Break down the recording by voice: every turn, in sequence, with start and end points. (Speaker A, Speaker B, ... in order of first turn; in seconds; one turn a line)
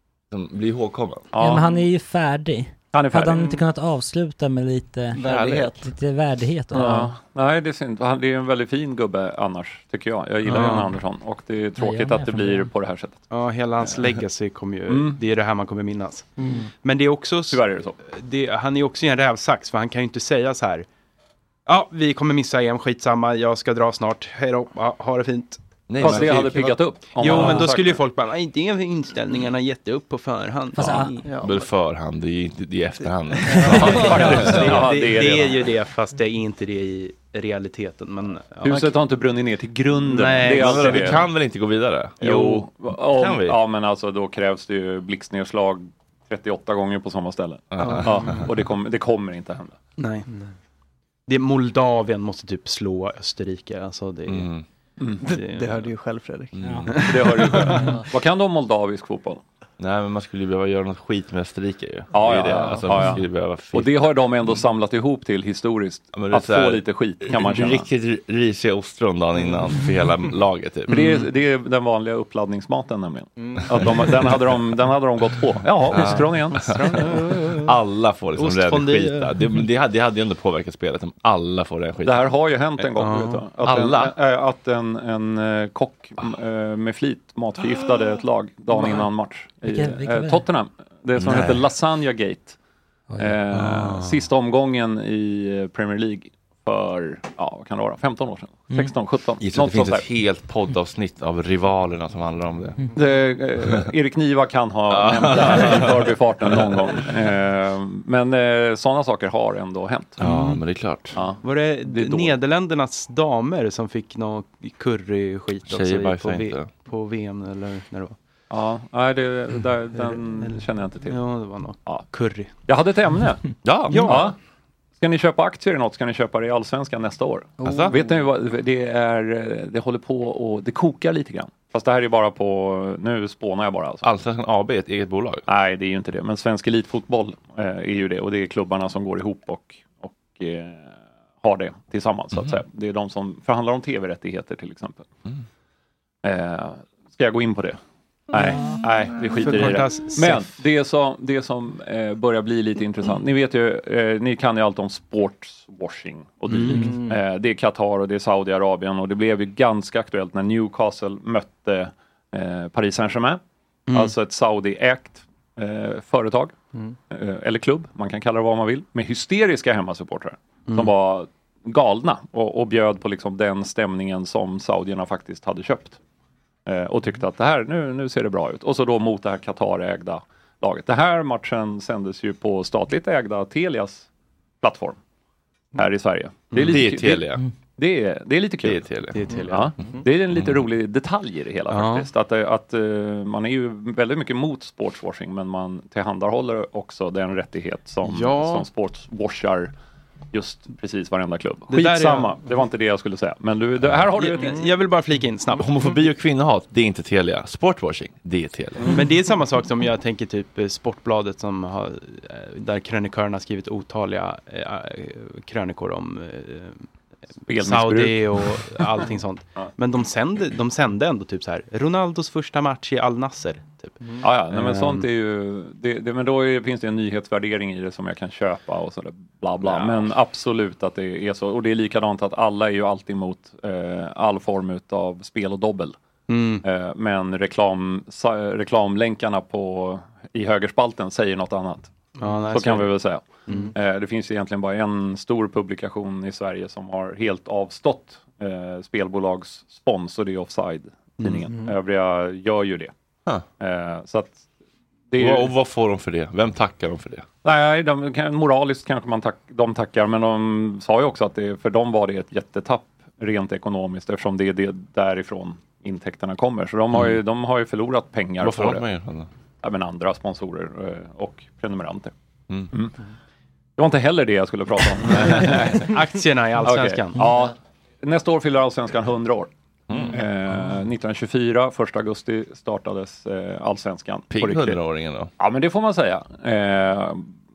Speaker A: 0.3-1.3
Speaker B: 1.3-1.7
Speaker C: 1.4-7.1
Speaker B: 2.9-3.5
Speaker D: 5.2-5.8
Speaker A: 5.2-5.7
Speaker B: 6.7-13.2
Speaker E: 10.5-10.9
Speaker C: 11.8-12.7
Speaker E: 13.3-16.3
Speaker B: 14.9-15.2
Speaker E: 16.8-20.9
Speaker B: 17.5-18.0
Speaker E: 21.7-26.4
Speaker A: 25.9-26.8
Speaker B: 26.0-28.0
Speaker E: 27.2-31.4
Speaker C: 30.8-31.1
Speaker A: 31.4-34.8
Speaker E: 33.7-39.0
Speaker B: 33.7-35.7
Speaker B: 38.6-41.3
Speaker E: 40.0-41.2
Speaker A: 40.5-42.3
Speaker B: 42.2-49.8
Speaker E: 42.2-42.7
Speaker A: 43.1-43.6
Speaker A: 47.7-48.4
Speaker E: 50.0-50.3
Speaker E: 51.3-54.5
Speaker A: 54.3-54.7
Speaker D: 55.2-56.6
Speaker E: 55.2-56.0
Speaker A: 56.5-56.9
Speaker E: 56.9-57.7
Speaker B: 57.0-59.4
Speaker A: 59.8-63.9
Speaker B: 62.1-67.9
Speaker A: 66.1-71.1
Speaker B: 70.9-77.0
Speaker A: 75.9-82.3
Speaker E: 76.6-77.7
Speaker E: 78.3-79.5
Speaker B: 82.0-92.6
Speaker E: 83.0-83.5
Speaker A: 83.6-84.2
Speaker C: 89.6-90.4
Speaker A: 91.2-91.6
Speaker B: 93.2-100.1
Speaker E: 93.5-94.2
Speaker A: 99.4-102.8
Speaker B: 102.9-110.2
Speaker A: 104.9-106.7
Speaker A: 110.2-111.2
Speaker E: 110.2-110.6
Speaker B: 111.2-112.4
Speaker E: 111.4-118.2
Speaker A: 115.7-116.7
Speaker B: 118.5-121.2
Speaker E: 120.0-122.5
Speaker B: 122.7-124.4
Speaker A: 123.7-124.2
Speaker E: 123.9-124.3
Speaker B: 125.0-134.0
Speaker A: 134.0-135.4
Speaker B: 135.5-145.1
Speaker B: 146.2-147.8
Speaker B: 148.3-166.6
Speaker E: 149.4-150.5
Speaker E: 156.5-157.1
Speaker B: 167.1-176.0
Speaker B: 176.7-184.1
Speaker B: 184.6-185.0
Speaker B: 185.8-199.7
Speaker A: 186.6-187.4
Speaker A: 188.6-189.2
Speaker E: 189.1-190.0
Speaker E: 191.7-192.1
Speaker E: 198.1-198.7
Speaker B: 200.3-204.7
Speaker E: 201.7-202.4
Speaker E: 204.2-205.9
Speaker A: 205.6-208.9
Speaker E: 208.8-216.9
Speaker B: 217.5-219.0
Speaker E: 217.6-225.1
Speaker B: 224.2-236.0
Speaker E: 236.3-236.6
Speaker B: 236.6-241.9
Speaker E: 242.2-242.9
Speaker B: 242.5-252.9
Speaker E: 243.5-243.7
Speaker E: 251.2-251.6
Speaker B: 253.6-254.4
Speaker B: 255.1-255.5
Speaker A: 255.2-257.3
Speaker B: 257.4-268.8
Speaker A: 268.4-269.3
Speaker B: 269.6-272.1
Speaker B: 273.8-276.0
Speaker E: 275.4-277.4
Speaker B: 276.6-284.8
Speaker A: 279.9-280.2
Speaker A: 284.3-285.3
Speaker B: 285.4-287.3